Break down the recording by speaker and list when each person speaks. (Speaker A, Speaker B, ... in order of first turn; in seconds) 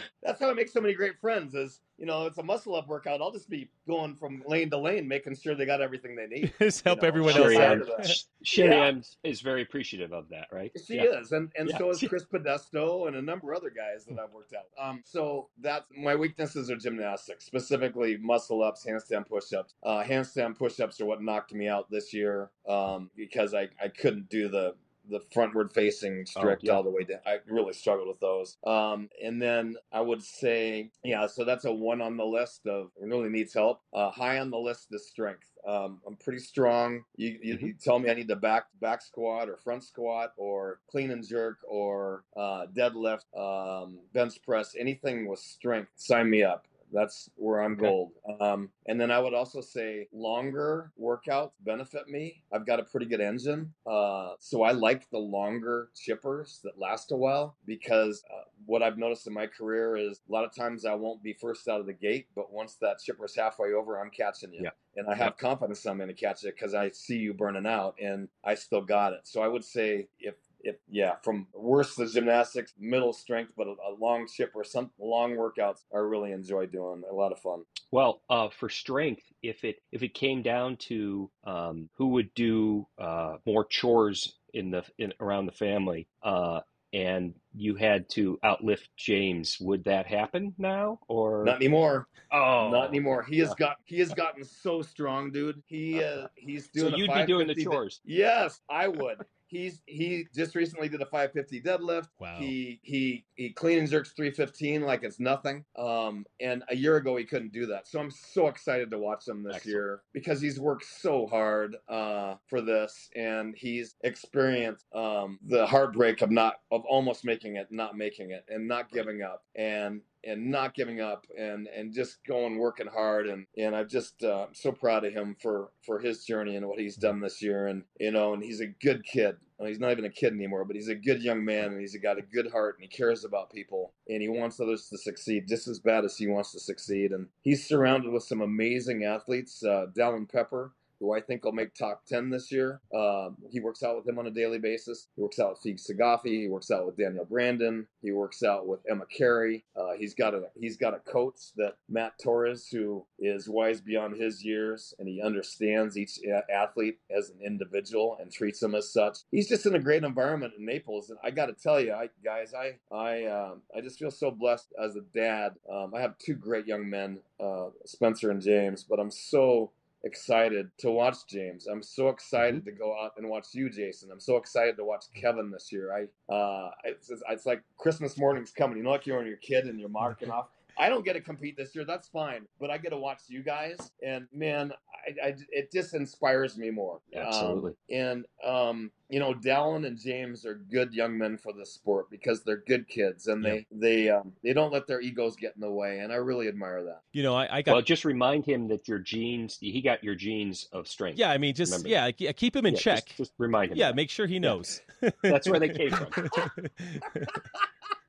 Speaker A: 0.2-8.9, 10.7-77.7, 91.4-197.0, 207.3-207.7
Speaker B: 6.4-8.2, 102.2-102.5, 197.1-197.8, 201.1-203.2, 203.7-207.4
Speaker C: 7.3-11.1, 11.7-12.1, 26.4-26.8, 64.6-65.3, 77.9-91.6, 92.3-93.5, 95.9-96.2, 96.8-98.0, 109.5-109.8, 187.1-187.7, 197.7-202.0, 202.7-204.6, 205.3-206.4